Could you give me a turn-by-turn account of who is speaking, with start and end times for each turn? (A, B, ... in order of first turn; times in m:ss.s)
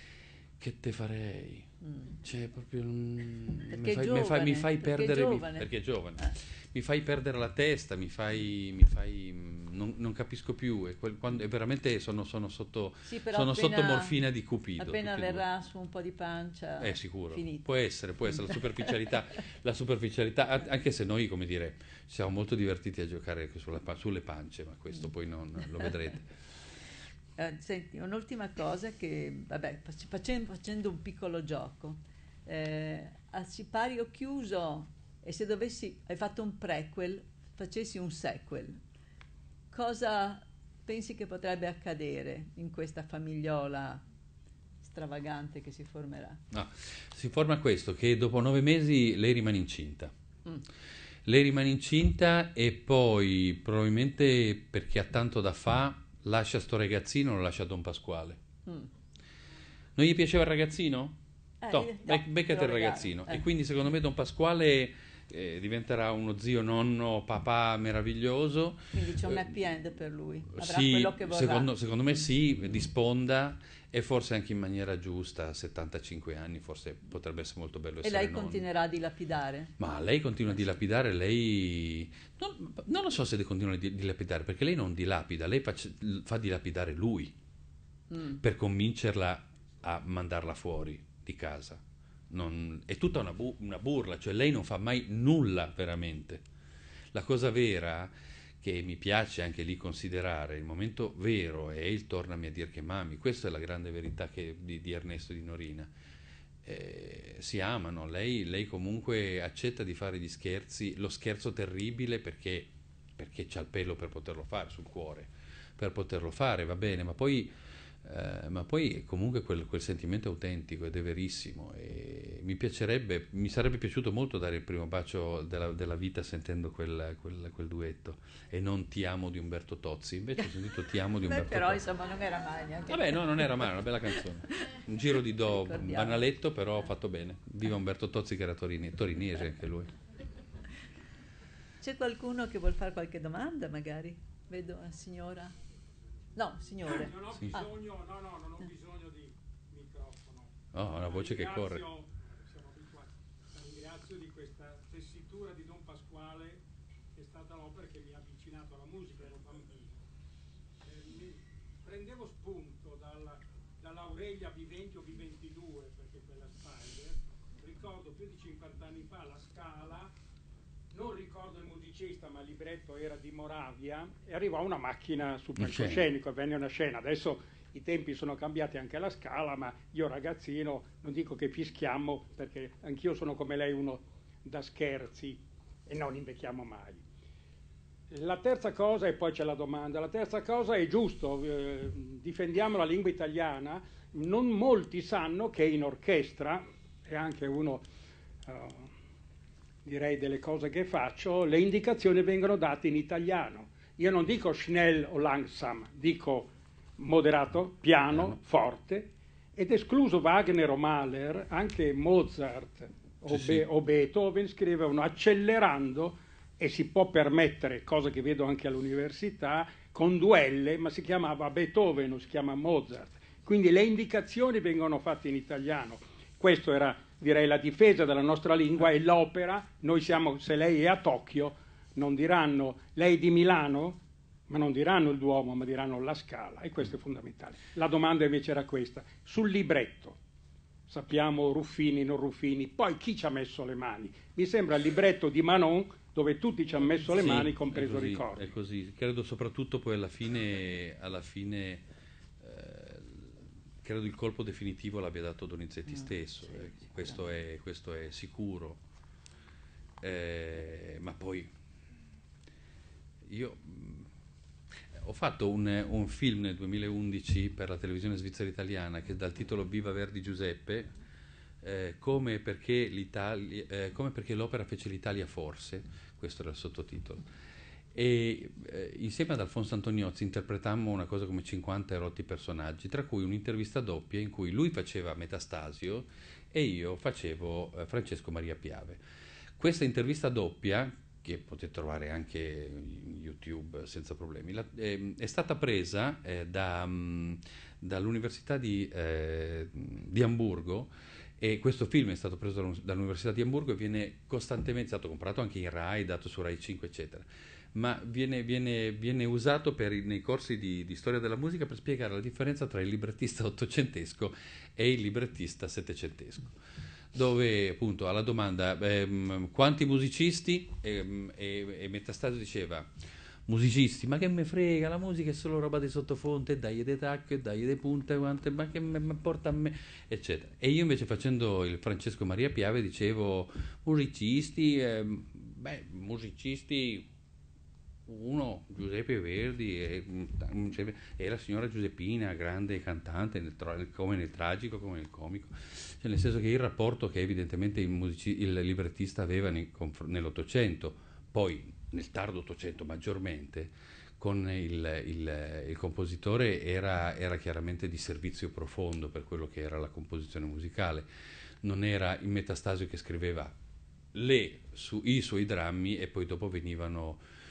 0:00.6-0:01.7 A
0:01.8-0:02.1 B
0:02.2-0:15.4 A
0:03.7-0:06.3 B
0:13.0-0:14.2 B
0:14.8-0:17.7 B
0:16.8-0:26.3 A
0:27.4-0:38.8 B
0:39.7-0:44.0 B
0:44.8-0:46.4 B
0:46.5-0:50.1 A
0:51.2-0:58.4 A
1:00.0-1:09.4 A
1:01.6-1:03.4 B
1:08.9-1:11.7 B
1:10.5-1:18.6 A
1:18.0-1:19.7 B
1:19.8-1:27.3 A
1:28.1-1:28.4 B
1:28.4-1:36.4 A
1:37.1-1:45.9 A
1:46.6-1:57.5 A
1:58.0-2:11.8 A
2:11.2-2:13.7 B
2:12.9-2:19.9 A
2:15.6-2:16.2 B
2:21.8-2:25.5 B
2:26.4-2:27.1 B
2:26.9-2:36.6 C
2:30.7-2:31.8 A
2:37.1-2:40.0 C
2:40.8-2:50.1 C
2:50.9-3:07.0 C
2:55.6-2:56.1 A
3:08.1-3:17.8 C
3:18.4-3:18.9 C
3:19.8-4:00.2 C
3:28.1-3:28.4 A
3:33.3-3:33.6 A
4:00.9-4:08.4 C
4:07.2-4:11.8 A
4:12.4-4:18.8 A
4:20.0-4:21.5 A
4:23.2-4:24.1 A
4:25.0-4:30.9 A
4:31.6-4:37.2 A
4:37.9-4:49.0 A
4:49.6-5:16.5 A
5:17.1-5:22.9 A
5:23.5-5:37.1 A
5:38.1-6:01.1 A
6:01.6-6:03.6 A
6:04.1-6:07.2 A